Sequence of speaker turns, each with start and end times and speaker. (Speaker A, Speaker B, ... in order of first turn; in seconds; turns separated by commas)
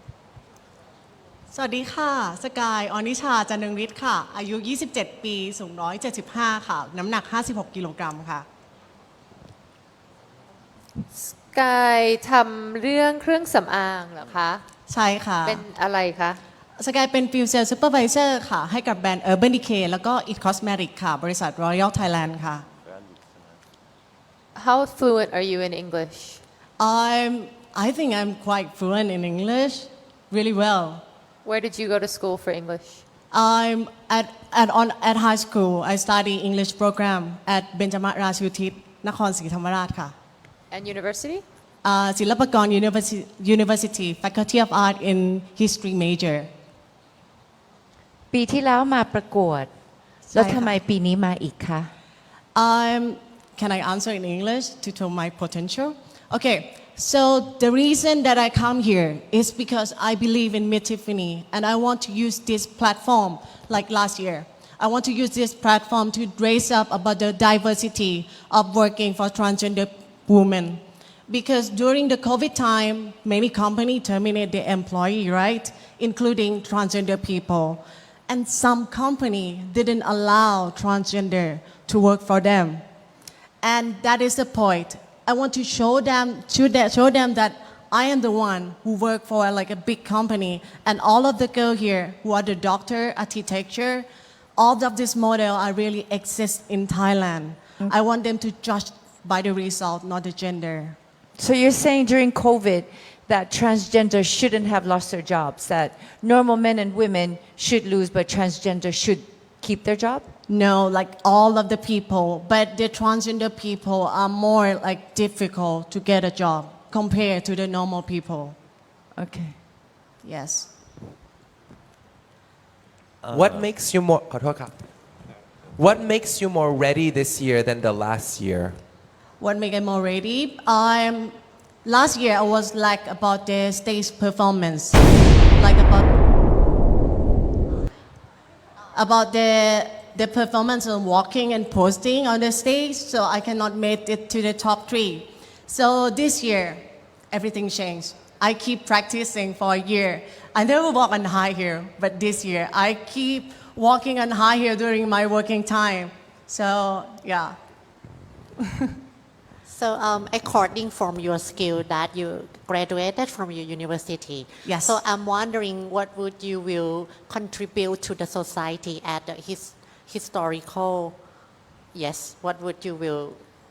Speaker A: 1.5-8.5, Speaker B: 11.2-14.6, Speaker A: 14.9-15.6, Speaker B: 15.4-16.4, Speaker A: 16.8-22.6, Speaker B: 24.6-26.4, Speaker A: 26.8-31.0, Speaker B: 31.4-33.0, Speaker A: 33.3-40.1, Speaker B: 40.7-41.4, Speaker A: 41.8-46.5, Speaker C: 48.3-49.7, Speaker C: 50.3-51.9, Speaker A: 50.3-50.7, Speaker A: 52.5-82.8, Speaker A: 83.6-101.0, Speaker C: 101.4-110.3, Speaker A: 110.5-118.5, Speaker C: 119.2-119.6, Speaker A: 120.2-120.7, Speaker D: 123.2-124.8, Speaker D: 125.8-128.8, Speaker A: 129.4-135.0, Speaker A: 135.6-136.1, Speaker A: 138.9-157.6, Speaker E: 159.7-171.2, Speaker A: 164.7-165.0, Speaker E: 171.9-173.4